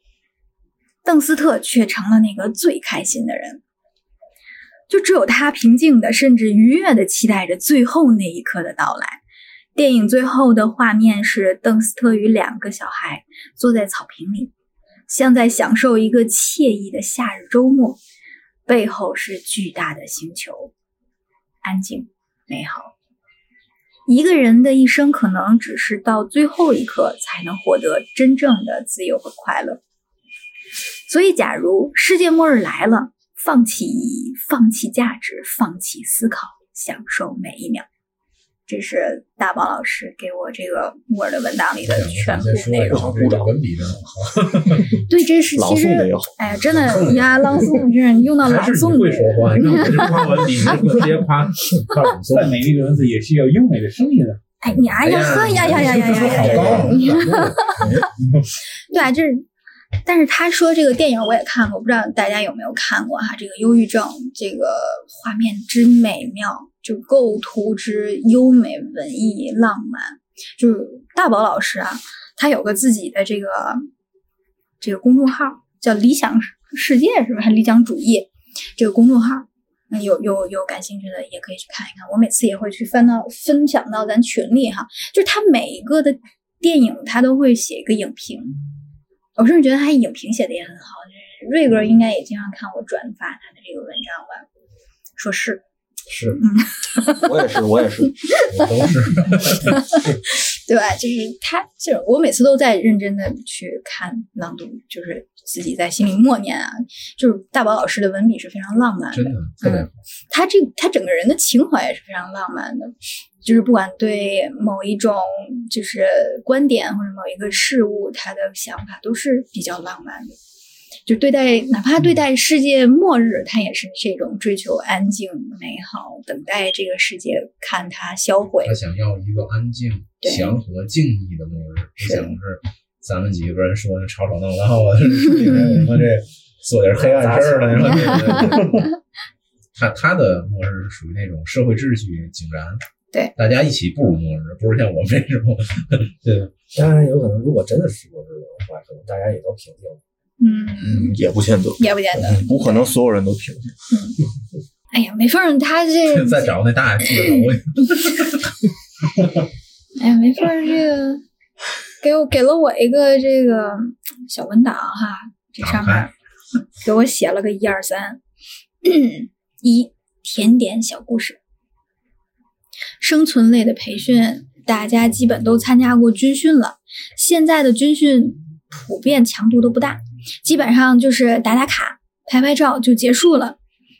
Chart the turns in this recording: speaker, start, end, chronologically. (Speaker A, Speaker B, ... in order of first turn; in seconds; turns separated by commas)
Speaker A: 1.0-3.6, Speaker A: 4.9-9.2, Speaker A: 9.7-14.5, Speaker A: 15.1-18.0, Speaker A: 18.7-20.7, Speaker A: 21.6-22.9, Speaker A: 24.1-29.8, Speaker A: 31.1-37.9, Speaker A: 38.7-43.2, Speaker B: 41.8-45.0, Speaker C: 42.9-43.5, Speaker A: 45.1-51.1, Speaker C: 45.5-46.3, Speaker B: 46.6-52.6, Speaker D: 52.0-54.4, Speaker A: 54.6-58.0, Speaker B: 55.0-58.0, Speaker E: 56.4-57.9, Speaker A: 58.9-59.5, Speaker A: 60.0-73.8, Speaker A: 74.8-88.6, Speaker A: 89.4-94.4, Speaker A: 95.2-95.6, Speaker E: 96.1-96.4, Speaker A: 96.4-97.4, Speaker C: 97.2-98.1, Speaker A: 98.1-98.9, Speaker B: 98.5-99.8, Speaker A: 99.5-120.3, Speaker B: 109.1-110.0, Speaker A: 121.0-128.8, Speaker B: 128.6-138.9, Speaker A: 130.2-130.6, Speaker A: 132.0-132.3, Speaker A: 135.4-135.8, Speaker E: 137.0-138.7, Speaker A: 137.8-138.7, Speaker B: 139.7-142.8, Speaker B: 143.3-146.2, Speaker E: 146.2-150.0, Speaker A: 150.4-151.2, Speaker C: 150.8-153.7, Speaker A: 151.8-152.9, Speaker A: 153.9-154.2, Speaker A: 154.9-156.6, Speaker B: 156.1-158.5, Speaker A: 160.0-161.2, Speaker A: 162.0-166.1, Speaker B: 165.6-166.1, Speaker A: 166.8-168.2, Speaker A: 168.8-171.4, Speaker A: 173.0-183.6